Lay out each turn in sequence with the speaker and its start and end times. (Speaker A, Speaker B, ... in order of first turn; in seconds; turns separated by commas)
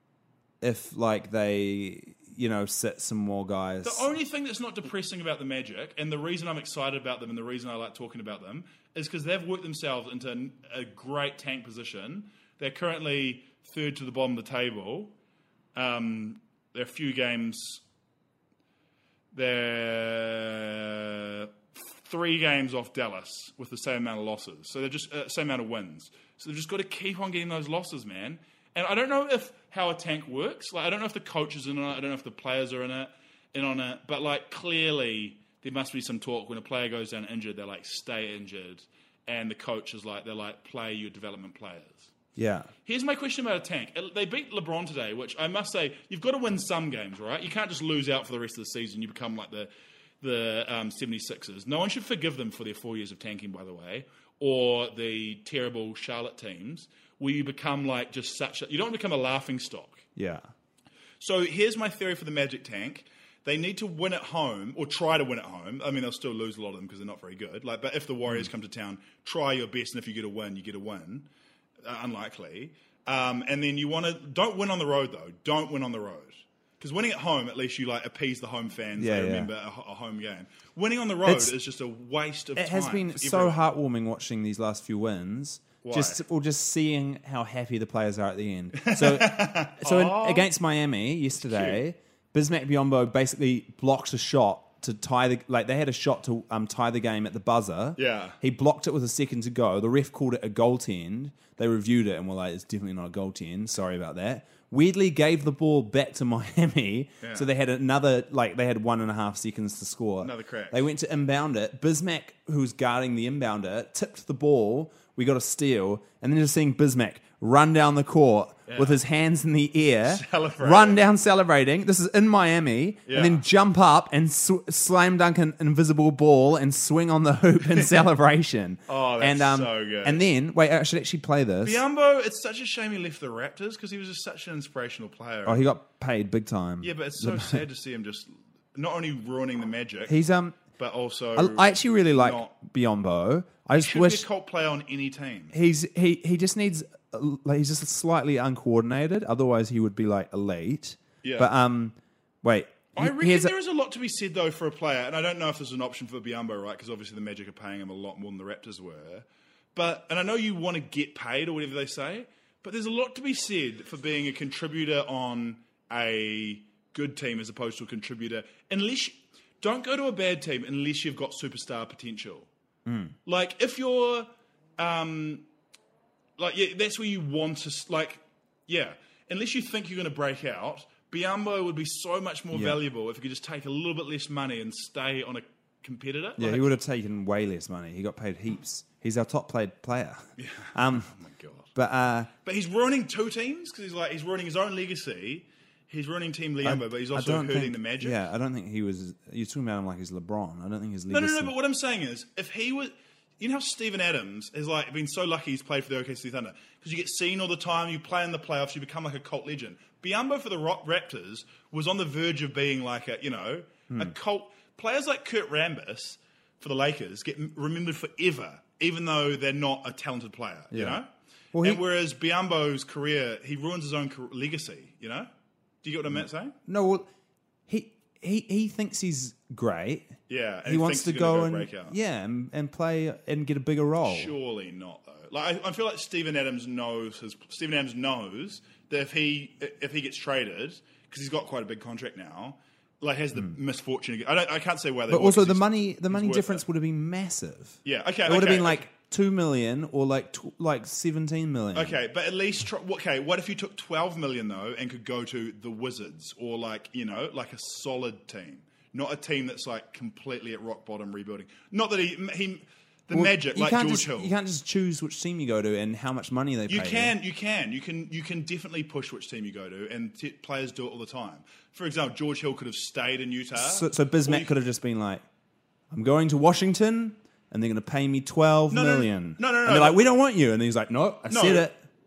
Speaker A: 0.6-4.1, Speaker B: 3.8-15.1, Speaker B: 15.7-17.8, Speaker B: 19.3-42.1, Speaker A: 42.4-42.7, Speaker B: 42.8-49.7, Speaker B: 50.2-60.0, Speaker A: 60.1-60.5, Speaker B: 61.2-71.3, Speaker B: 71.8-83.6, Speaker A: 79.0-79.5, Speaker A: 81.2-81.5, Speaker A: 82.5-131.8, Speaker B: 85.8-86.2, Speaker B: 88.7-90.5, Speaker B: 91.4-91.8, Speaker B: 98.0-98.4, Speaker B: 107.2-107.5, Speaker B: 110.2-110.8, Speaker B: 118.7-119.0, Speaker B: 120.0-121.0, Speaker B: 123.1-123.4, Speaker B: 128.9-130.2, Speaker B: 131.6-135.7, Speaker A: 135.4-137.6, Speaker B: 136.8-140.2, Speaker A: 140.1-140.6, Speaker B: 140.8-142.5, Speaker A: 141.3-144.2, Speaker B: 143.7-145.5, Speaker A: 145.5-153.5, Speaker B: 151.2-151.5, Speaker B: 152.9-172.5, Speaker A: 172.8-173.1, Speaker B: 173.2-175.4, Speaker B: 176.4-186.7, Speaker A: 182.5-182.8, Speaker A: 186.4-191.1, Speaker B: 190.4-191.7, Speaker A: 191.7-192.3, Speaker B: 192.4-198.2, Speaker A: 196.6-201.5, Speaker B: 201.1-221.1, Speaker A: 220.7-221.0, Speaker A: 221.5-221.8, Speaker B: 221.6-225.3, Speaker B: 225.8-226.5, Speaker A: 226.1-227.1, Speaker A: 227.7-234.3, Speaker B: 230.3-231.9, Speaker B: 234.0-246.6, Speaker A: 245.1-252.0, Speaker B: 247.8-248.9, Speaker B: 251.7-264.4, Speaker A: 263.1-267.1, Speaker B: 266.7-274.5, Speaker A: 273.6-275.2, Speaker A: 275.9-281.8, Speaker B: 278.7-280.1, Speaker B: 281.3-281.7